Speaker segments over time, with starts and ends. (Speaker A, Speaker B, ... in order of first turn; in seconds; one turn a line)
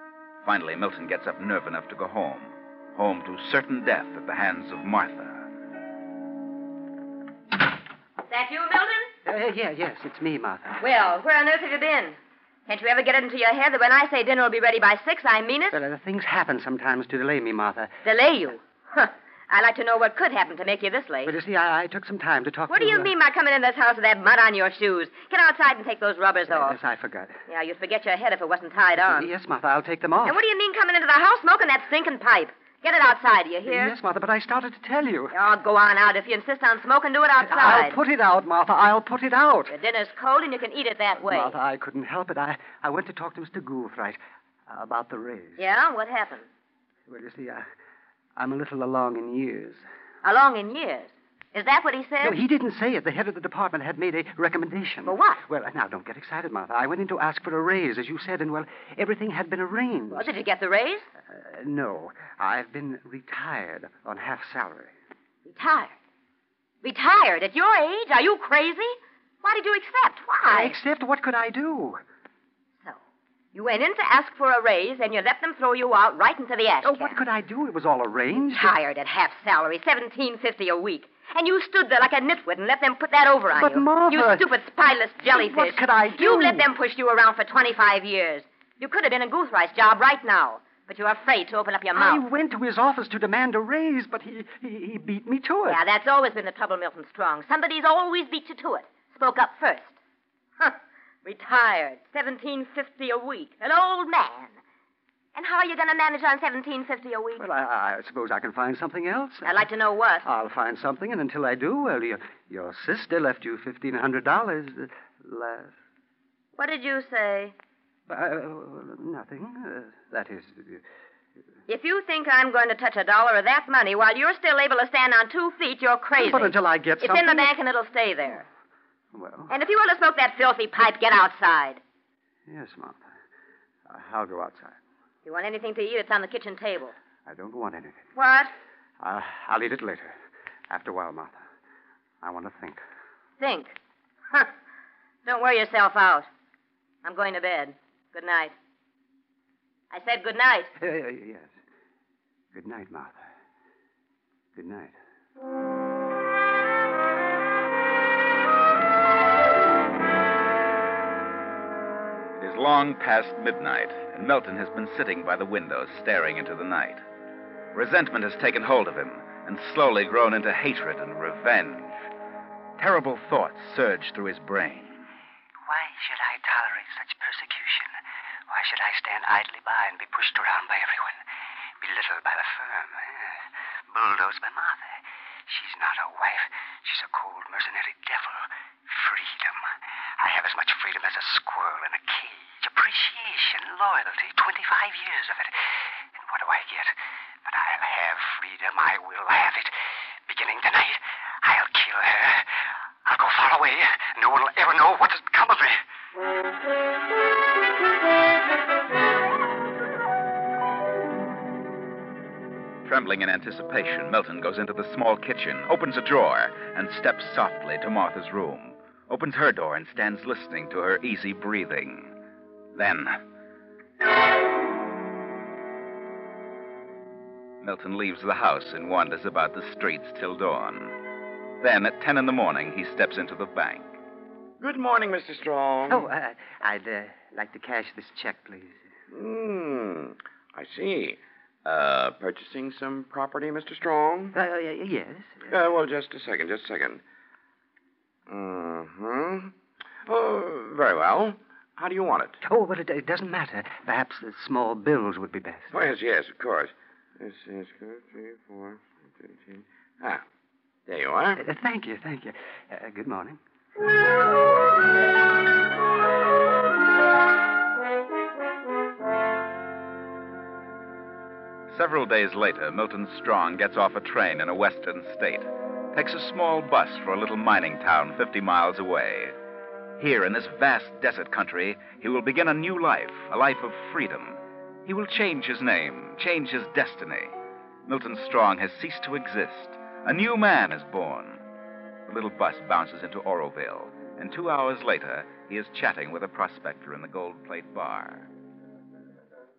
Speaker A: 0.4-5.5
Speaker B: 8.3-9.1
Speaker C: 9.3-10.8
Speaker B: 10.8-12.2
Speaker B: 12.7-15.8
Speaker C: 15.7-18.0
Speaker B: 18.1-21.3
Speaker C: 21.2-23.1
Speaker B: 22.7-26.8
Speaker C: 26.5-27.4
Speaker B: 27.5-29.3
Speaker C: 29.1-30.4
Speaker B: 30.2-33.9
Speaker C: 33.7-35.4
Speaker B: 35.3-38.0
Speaker C: 37.4-39.8
Speaker B: 39.7-41.5
Speaker C: 41.2-45.6
Speaker B: 45.6-46.5
Speaker C: 47.1-47.7
Speaker C: 48.4-49.8
Speaker B: 50.2-52.4
Speaker C: 52.2-60.3
Speaker B: 55.0-55.4
Speaker B: 60.1-61.1
Speaker C: 61.3-64.9
Speaker B: 65.5-66.0
Speaker B: 66.8-70.8
Speaker C: 70.5-72.0
Speaker B: 73.5-77.2
Speaker C: 76.8-78.7
Speaker B: 78.5-92.2
Speaker C: 83.5-84.5
Speaker C: 85.3-86.7
Speaker C: 92.0-95.8
Speaker B: 95.7-100.0
Speaker B: 100.6-104.6
Speaker B: 105.3-107.4
Speaker C: 107.4-109.7
Speaker B: 109.5-110.3
Speaker C: 110.2-115.7
Speaker B: 116.6-117.5
Speaker C: 118.1-120.8
Speaker B: 121.7-128.5
Speaker C: 126.2-127.5
Speaker C: 129.1-129.5
Speaker B: 129.5-131.8
Speaker C: 132.5-133.1
Speaker C: 133.9-134.8
Speaker B: 135.2-136.9
Speaker C: 137.3-138.1
Speaker B: 138.2-138.5
Speaker C: 139.0-140.2
Speaker C: 140.7-141.4
Speaker C: 142.2-142.8
Speaker B: 143.4-143.8
Speaker B: 145.3-146.3
Speaker B: 147.0-148.5
Speaker B: 149.9-150.7
Speaker C: 150.8-151.5
Speaker C: 152.5-153.3
Speaker C: 154.6-154.9
Speaker A: 162.3-167.0
Speaker A: 167.7-172.0
Speaker A: 172.8-175.0
Speaker C: 175.7-177.9
Speaker C: 178.5-181.2
Speaker C: 181.8-183.1
Speaker C: 183.9-185.0
Speaker C: 185.5-195.6
Speaker C: 196.2-196.9
Speaker C: 197.5-199.7
Speaker C: 200.3-202.5
Speaker C: 203.1-205.8
Speaker A: 212.8-222.1
Speaker A: 222.8-223.2
Speaker A: 227.6-231.0
Speaker A: 231.6-233.9
Speaker D: 234.6-236.1
Speaker C: 235.9-238.8
Speaker D: 239.1-244.3
Speaker C: 244.3-245.5
Speaker D: 245.5-247.0
Speaker D: 248.3-249.5
Speaker D: 250.1-252.4
Speaker C: 252.4-255.8
Speaker D: 255.7-260.2
Speaker D: 260.9-261.4
Speaker C: 261.4-263.4
Speaker A: 271.7-279.4
Speaker A: 280.0-287.3
Speaker A: 287.9-291.4
Speaker A: 292.1-298.3